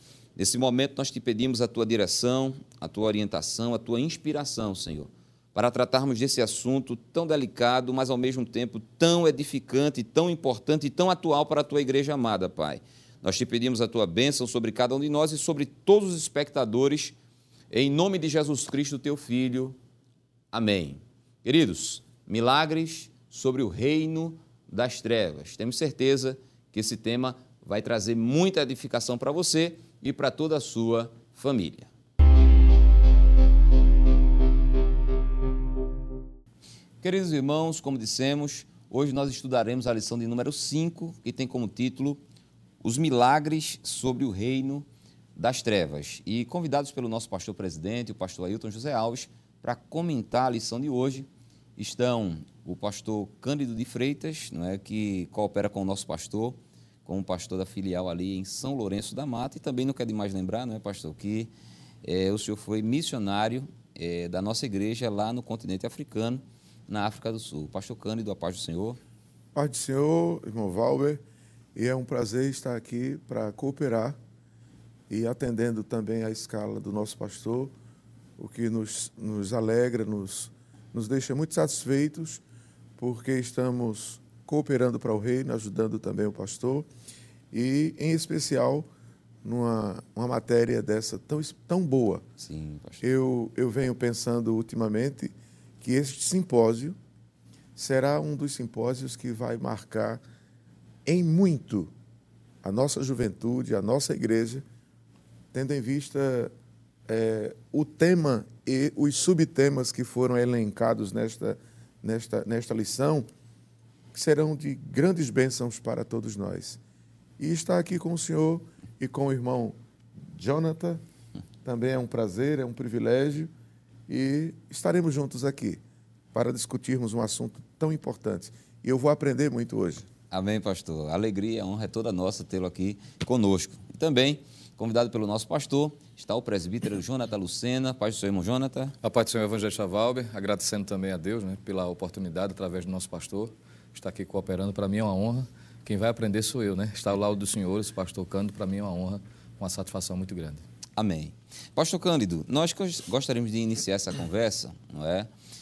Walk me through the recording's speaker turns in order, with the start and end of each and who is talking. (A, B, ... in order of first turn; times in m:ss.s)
0:00.4-0:17.2 A
0:17.7-0:19.8 A
0:20.5-0:31.9 A
0:37.0-0:42.2 A
0:42.8-1:01.5 A
1:02.0-1:09.0 A
1:09.6-1:11.2 B
1:11.8-1:14.2 B
1:15.1-1:17.7 B
1:18.4-1:22.4 B
1:23.0-1:26.9 B
1:27.5-1:28.9 B
1:29.4-1:32.2 B
1:32.4-1:33.0 A
1:33.0-1:37.0 B
1:37.8-1:40.2 B
1:41.1-1:41.9 B
1:42.6-1:44.6 B
1:45.5-1:46.5 B
1:47.1-1:53.3 B
1:54.1-1:56.8 B
1:57.4-2:01.0 B
2:01.6-2:03.5 B
2:04.1-2:05.8 B
2:06.3-2:10.1 B
2:10.3-2:19.0 A
2:19.0-2:30.6 C
2:31.0-2:35.3 A